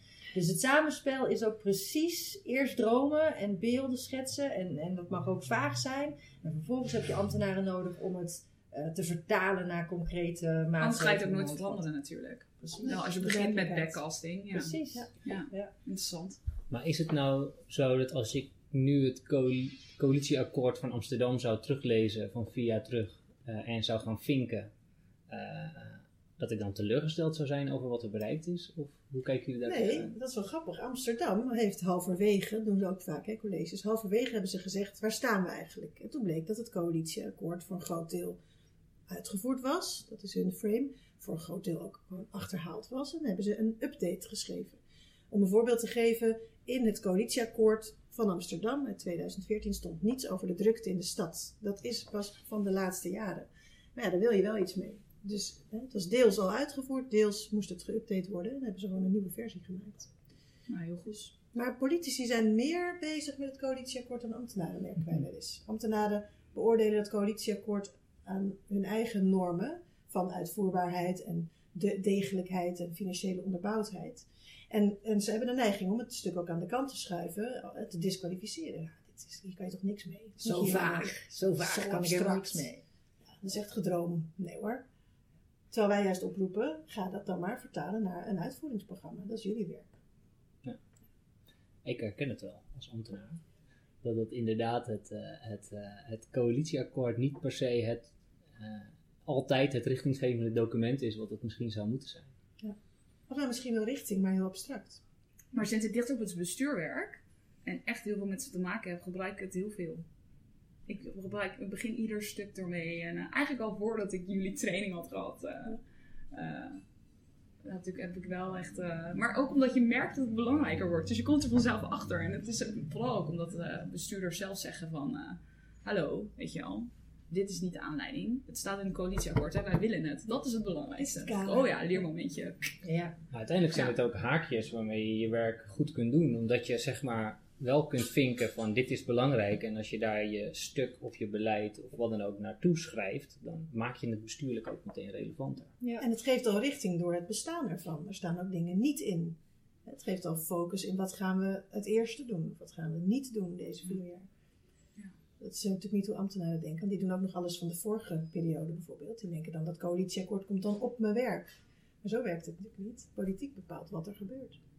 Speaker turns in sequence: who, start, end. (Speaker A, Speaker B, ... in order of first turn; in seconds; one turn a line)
Speaker A: 0.3-11.8
Speaker B: 10.8-16.4
Speaker A: 12.6-13.0
Speaker C: 12.8-14.0
Speaker A: 14.5-15.7
Speaker D: 16.7-24.7
Speaker D: 25.3-30.1
Speaker C: 29.6-38.4
Speaker C: 39.1-60.1
Speaker B: 60.7-61.3
Speaker C: 61.4-82.7
Speaker A: 80.4-82.8
Speaker C: 83.2-84.8
Speaker C: 85.7-89.9
Speaker D: 91.8-93.4
Speaker D: 94.0-102.3
Speaker C: 103.3-105.0
Speaker B: 105.5-110.1
Speaker B: 110.9-115.8
Speaker B: 116.3-116.8
Speaker B: 117.6-132.7
Speaker C: 131.0-131.7
Speaker A: 132.8-133.2
Speaker D: 133.3-145.7
Speaker A: 145.8-146.1
Speaker C: 146.0-154.2
Speaker C: 155.4-161.5
Speaker C: 162.0-164.6